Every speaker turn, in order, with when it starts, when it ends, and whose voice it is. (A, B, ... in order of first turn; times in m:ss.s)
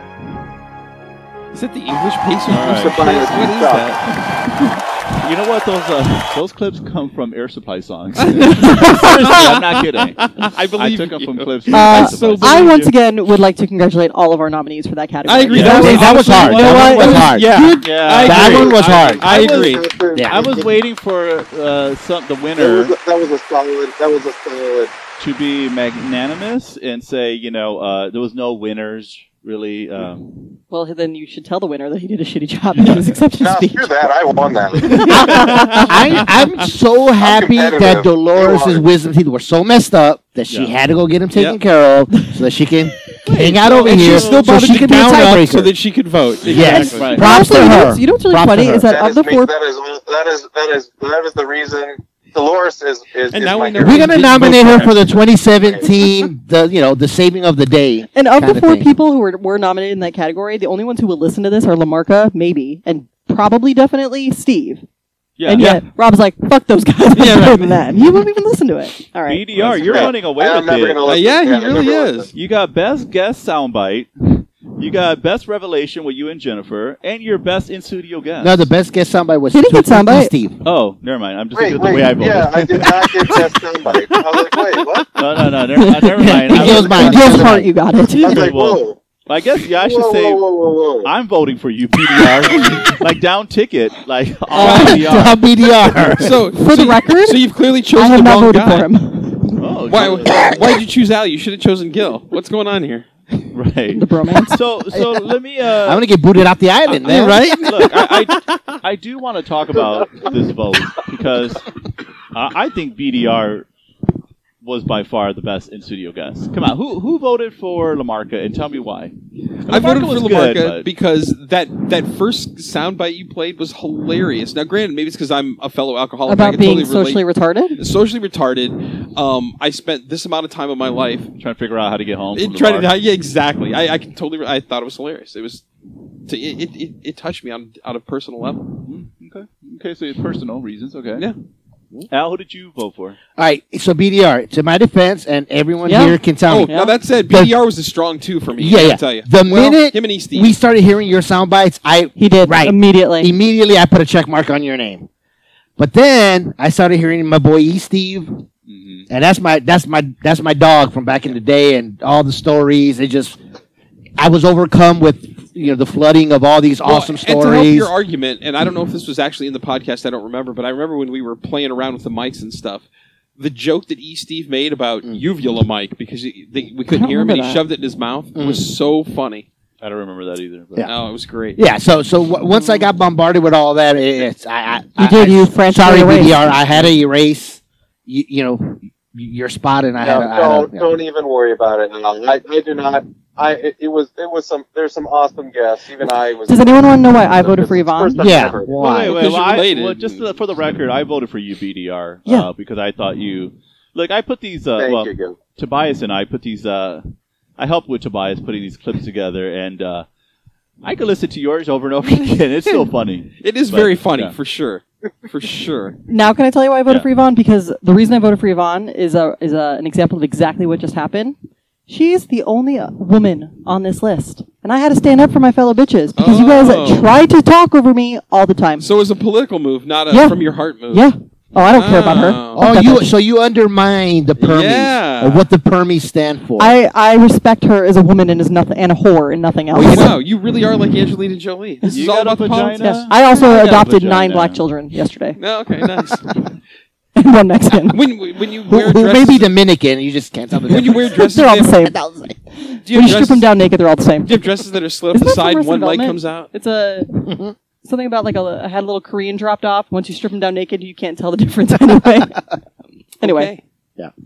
0:01.5-0:04.2 A
0:02.5-0:03.0 B
0:02.7-0:03.9 C
0:05.1-0:12.9 B
0:08.3-0:09.6 A
0:08.6-0:09.1 D
0:10.2-0:12.8 A
0:11.7-0:17.6 D
0:15.2-0:19.8 A
0:15.5-0:22.9 B
0:15.6-0:19.3 E
0:19.3-0:20.7 C
0:20.1-0:20.6 E
0:22.6-0:24.9 C
0:25.2-0:30.6 B
0:30.7-0:34.1 D
0:32.7-0:33.2 B
0:33.4-0:35.0 C
0:34.8-0:35.8 D
0:35.1-0:45.7 E
0:37.2-0:38.9 C
0:40.5-0:40.8 B
0:41.3-0:41.6 A
0:43.3-0:47.2 A
0:43.4-0:44.9 B
0:46.4-0:48.9 E
0:46.5-0:47.3 B
0:46.6-0:49.5 D
0:48.8-0:54.4 C
0:53.3-0:55.0 A
0:53.8-0:58.9 E
0:55.5-0:55.9 C
0:58.1-1:04.8 D
1:05.4-1:05.8 B
1:05.4-1:09.5 D
1:05.6-1:05.8 A
1:07.2-1:07.8 A
1:09.2-1:11.0 B
1:09.7-1:12.3 C
1:09.8-1:10.1 A
1:11.0-1:12.3 A
1:12.3-1:18.7 B
1:18.4-1:20.6 E
1:19.5-1:20.3 D
1:20.6-1:24.2 B
1:21.5-1:25.3 C
1:25.2-1:27.3 B
1:25.7-1:28.4 D
1:26.2-1:27.7 E
1:26.6-1:27.6 C
1:28.1-1:29.2 C
1:28.2-1:30.5 B
1:29.7-1:31.1 C
1:31.0-1:35.4 B
1:34.5-1:35.3 D
1:34.5-1:35.0 A
1:34.6-1:36.3 E
1:36.2-1:38.9 A
1:36.5-1:37.4 D
1:37.9-1:39.6 D
1:39.6-1:40.6 B
1:39.9-1:43.1 A
1:43.5-1:46.1 B
1:43.9-1:44.6 D
1:44.9-1:45.2 E
1:45.8-1:47.6 E
1:46.9-1:51.6 B
1:47.0-1:48.4 A
1:52.3-1:53.7 B
1:54.6-1:59.1 B
1:59.6-2:00.9 B
1:59.7-2:07.2 A
2:06.2-2:07.8 D
2:07.8-2:11.3 A
2:11.4-2:12.9 B
2:12.3-2:15.6 A
2:16.3-2:18.8 A
2:18.8-2:21.3 B
2:22.1-2:23.2 B
2:23.4-2:27.5 E
2:25.8-2:26.9 D
2:26.5-2:30.5 A
2:28.6-2:35.1 E
2:32.2-2:33.3 D
2:35.8-2:38.4 E
2:38.7-2:39.1 B
2:39.1-2:43.4 E
2:44.2-2:47.9 E
2:46.8-2:52.8 A
2:53.4-2:59.5 A
2:56.9-2:57.6 D
2:58.3-2:58.6 E
2:59.8-3:00.9 B
3:00.8-3:01.6 A
3:01.6-3:10.9 E
3:05.0-3:06.5 D
3:10.0-3:18.9 C
3:16.5-3:18.5 D
3:18.2-3:19.3 E
3:18.8-3:27.0 B
3:19.1-3:20.4 A
3:24.8-3:25.4 C
3:27.6-3:30.0 B
3:30.8-3:34.3 B
3:33.4-3:36.0 A
3:36.1-3:41.4 D
3:41.9-3:48.9 D
3:46.2-3:47.1 A
3:48.8-3:51.1 A
3:50.1-3:53.1 D
3:51.6-3:52.6 A
3:52.5-3:56.8 E
3:54.4-3:55.4 A
3:56.6-4:00.1 D
3:59.7-4:02.9 A
4:01.9-4:04.6 B
4:02.8-4:05.4 D
4:05.4-4:06.4 A
4:07.2-4:08.0 D
4:07.9-4:09.5 A
4:08.6-4:11.3 E
4:10.7-4:11.9 A
4:11.2-4:12.0 D
4:11.9-4:12.3 E
4:12.5-4:14.4 D
4:12.8-4:13.5 A
4:14.2-4:16.5 A
4:15.1-4:17.2 D
4:17.2-4:17.5 E
4:17.8-4:22.4 D
4:23.2-4:23.5 D
4:23.2-4:23.6 A